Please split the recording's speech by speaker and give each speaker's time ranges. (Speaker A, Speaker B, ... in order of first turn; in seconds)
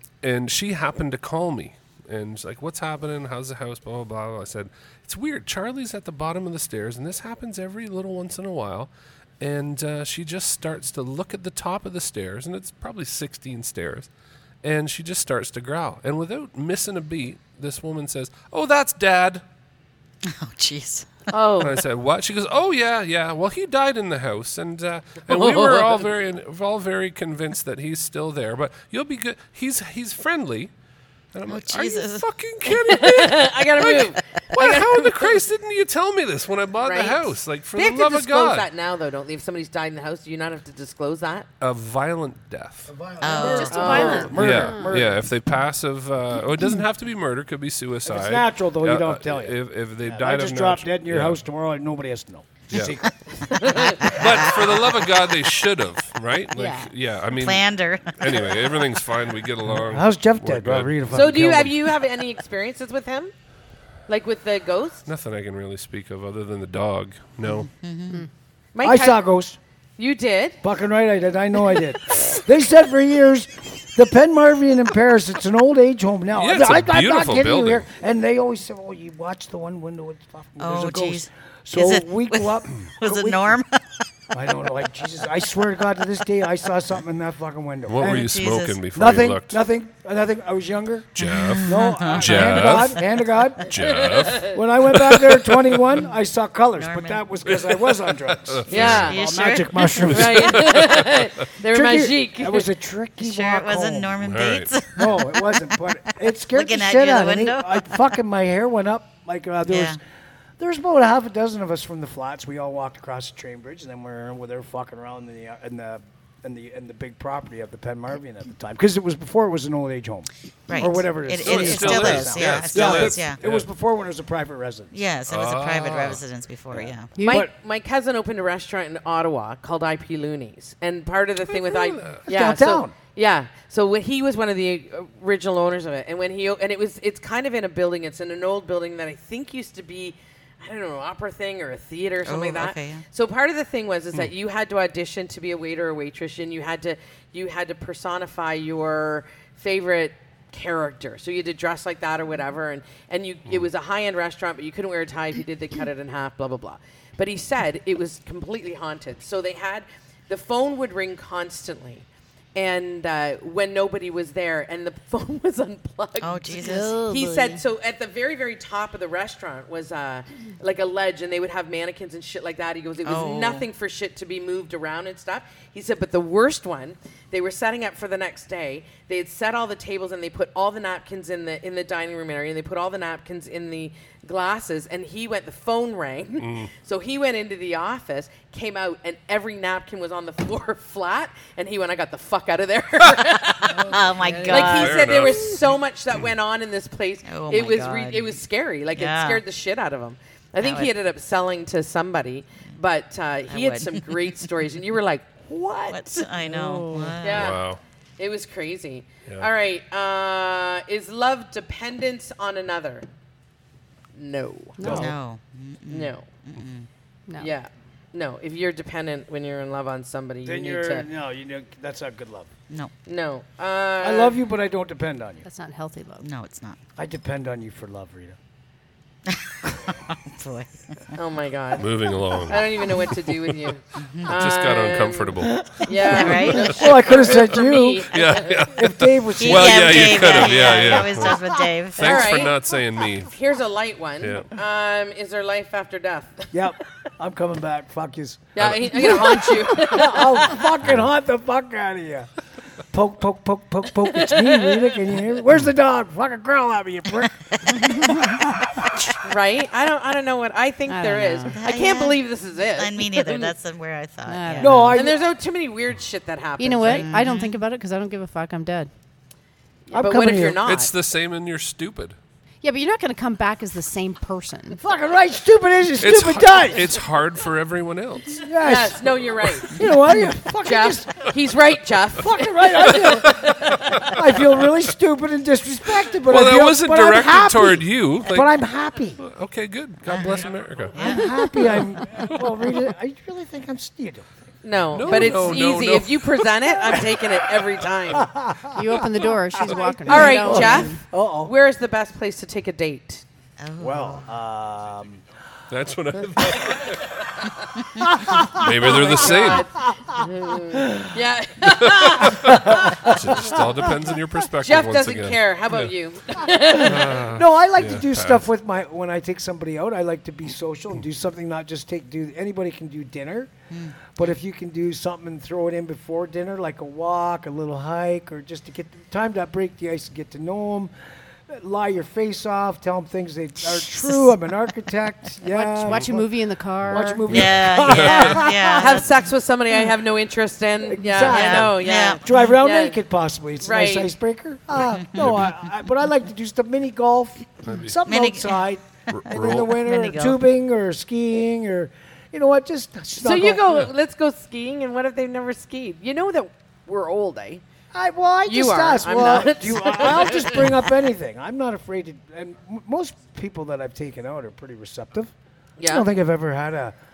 Speaker A: 0.2-14.1, 14.6-19.4, 21.6-30.7, 31.3-38.7, 41.6-43.0, 44.3-51.4, 52.7-53.0, 54.0-61.4, 65.1-67.7, 76.4-77.8, 87.9-89.6, 91.2-93.0, 93.6-95.9, 97.5-99.2, 100.1-101.3, 104.2-104.7, 121.4-123.7, 125.3-126.2, 131.5-132.3, 186.4-186.7, 194.5-195.7, 207.2-207.8, 231.8-233.5, 234.3-237.5, 238.1-243.3, 244.2-244.5, 248.6-249.3, 250.8-251.1, 270.6-272.2, 276.0-278.4, 283.1-284.5, 286.3-288.5, 289.2-292.5, 294.9-297.0, 305.7-307.6, 308.4-309.7, 311.6-315.9, 316.7-318.5, 337.3-338.5, 345.2-345.5, 347.7-348.0, 349.1-349.8
Speaker B: 20.2-21.4, 31.5-32.2, 34.0-34.5, 43.2-44.1, 54.0-54.4, 57.3-58.8, 67.6-68.2, 80.6-83.8, 88.1-88.8, 91.2-92.9, 96.8-97.2, 98.7-100.3, 103.2-105.8, 106.5-107.9, 109.7-110.0, 120.7-123.4, 124.9-127.1, 142.2-143.1, 166.2-167.6, 173.1-173.7, 193.8-195.3, 197.2-198.4, 198.9-199.4, 200.6-200.9, 203.5-204.2, 205.9-207.6, 214.8-216.9, 226.2-226.8, 229.3-231.2, 234.0-234.3, 236.1-236.8, 239.4-242.5, 257.7-259.2, 261.5-265.0, 266.8-267.6, 290.1-291.6, 303.6-304.3, 323.7-324.0, 337.3-339.1, 341.2-342.2, 348.1-348.6, 349.3-350.4
Speaker C: 21.3-21.8, 25.3-26.1, 32.9-35.4, 36.8-41.5, 43.7-44.4, 53.4-54.2, 61.1-63.3, 64.1-65.1, 68.8-69.2, 70.0-70.6, 93.7-94.6, 98.7-99.2, 100.0-102.7, 127.2-206.3, 207.2-207.6, 208.2-213.1, 214.2-215.0, 215.9-216.3, 217.4-221.1, 223.1-224.4, 231.2-238.7, 242.0-242.6, 243.3-246.5, 248.6-250.7, 254.1-255.0, 259.2-263.5, 264.9-267.1, 269.9-270.9, 278.6-279.9, 280.6-284.1, 294.6-298.3, 300.1-303.2, 308.8-313.6, 314.6-317.2, 338.7-343.0, 343.6-344.1, 353.2-357.6, 358.4-360.8, 365.8-366.1
Speaker D: 42.9-45.3, 48.1-53.1, 59.7-61.8, 68.8-69.6, 70.6-83.6, 84.3-88.4, 88.9-93.7, 94.5-100.8, 101.7-104.3, 105.0-110.0, 110.6-125.0, 126.7-127.5, 132.3-132.9, 214.8-215.1, 220.4-222.5, 224.0-225.4, 227.0-228.4, 235.5-238.1, 238.7-240.5, 246.5-252.3, 252.9-257.9, 264.6-265.2, 269.9-270.6, 274.8-276.9, 278.4-281.3, 282.2-289.2, 291.0-294.3, 295.1-295.5, 298.1-301.5, 303.8-305.2, 306.4-306.7, 308.0-311.1, 312.2-313.6, 316.7-323.5, 324.1-330.9, 331.5-336.3, 336.9-338.9, 340.9-353.7, 357.9-365.3, 365.9-367.0
Speaker E: 43.4-45.0, 56.5-56.9, 127.2-127.5, 166.6-167.2, 193.8-194.8, 206.4-207.2, 214.8-215.1, 225.4-226.3, 260.9-261.6, 264.3-265.0, 266.6-268.9, 272.6-274.8, 291.0-292.2, 298.7-301.0, 335.4-337.3